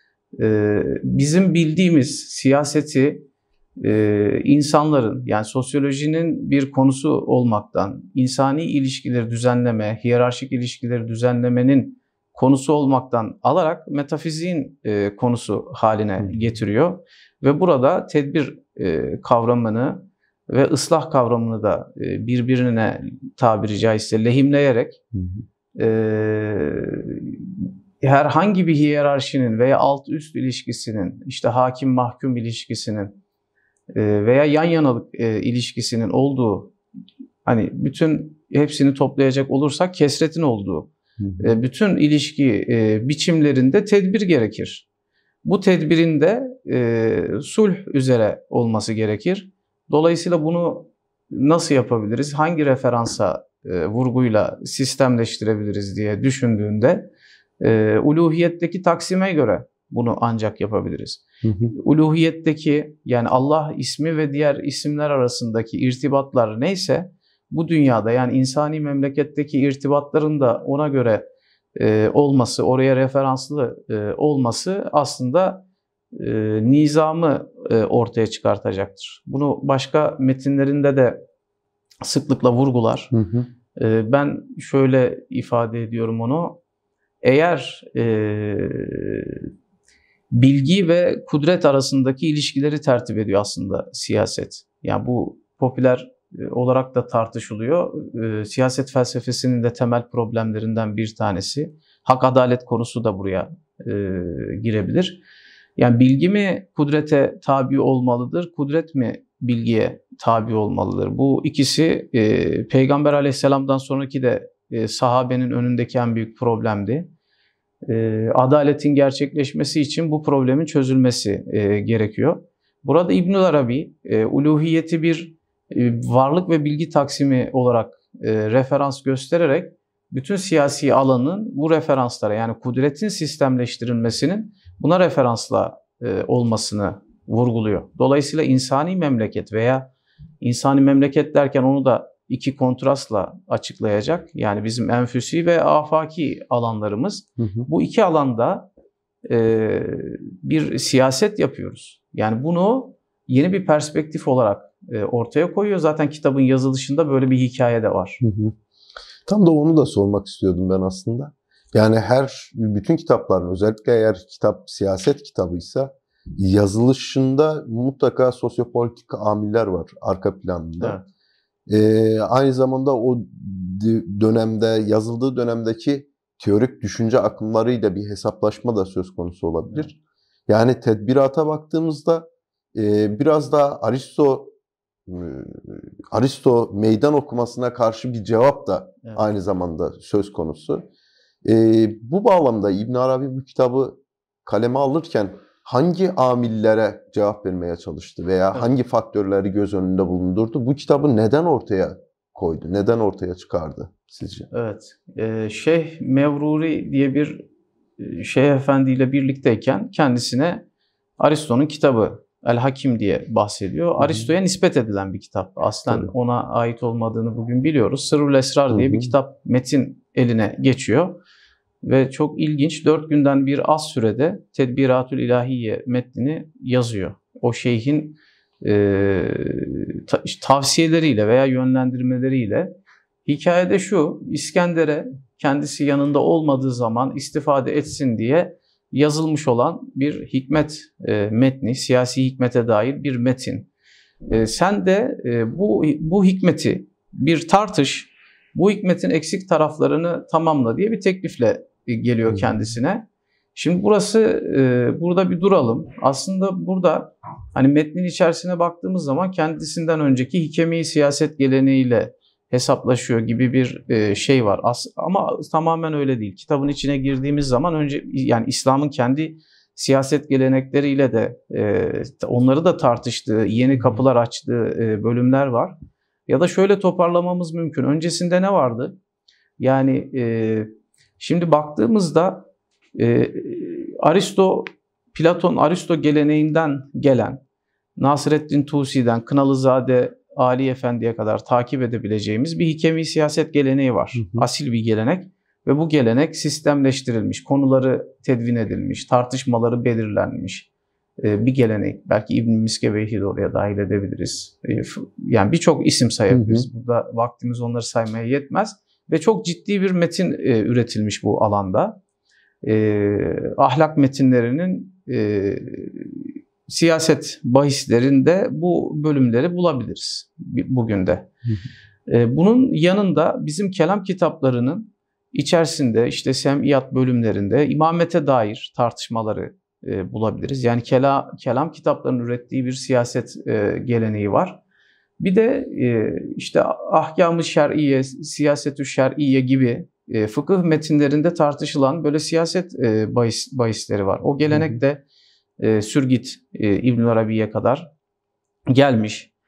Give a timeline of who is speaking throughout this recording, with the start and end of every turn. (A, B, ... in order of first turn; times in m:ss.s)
0:00.4-0:03.2 A
0:03.8-0:25.0 A
0:16.2-0:16.5 B
0:25.1-0:25.4 B
0:25.8-0:33.2 A
0:33.9-0:36.7 A
0:37.4-0:44.8 A
0:41.2-0:41.5 B
0:45.4-0:57.1 A
0:57.6-1:11.2 A
1:01.4-1:01.7 B
1:11.8-1:21.2 A
1:22.0-1:23.1 A
1:23.1-1:23.5 B
1:23.8-1:26.6 A
1:27.2-1:29.5 A
1:30.3-1:45.2 A
1:45.8-1:57.1 A
1:57.8-2:28.7 A
2:27.4-2:27.7 B
2:29.2-2:38.2 A
2:38.2-2:38.6 B
2:39.2-2:51.0 B
2:51.7-3:00.0 B
3:00.5-3:04.5 B
3:05.1-3:10.9 B
3:11.4-3:24.5 B
3:24.5-3:27.4 A
3:28.0-3:30.6 A
3:31.2-3:41.2 A
3:34.0-3:34.3 B
3:38.7-3:39.1 B
3:41.8-3:52.7 A
3:53.2-4:03.7 A
4:04.3-4:39.0 A
4:39.6-4:42.4 A
4:43.0-4:47.4 A
4:48.0-5:00.7 A
4:54.1-4:54.4 B
5:01.2-5:12.0 A
5:06.3-5:06.7 B
5:12.6-5:21.3 A
5:22.1-5:34.6 A
5:35.2-5:45.0 A
5:44.5-5:44.8 B
5:45.6-5:47.9 A
5:48.7-5:49.3 A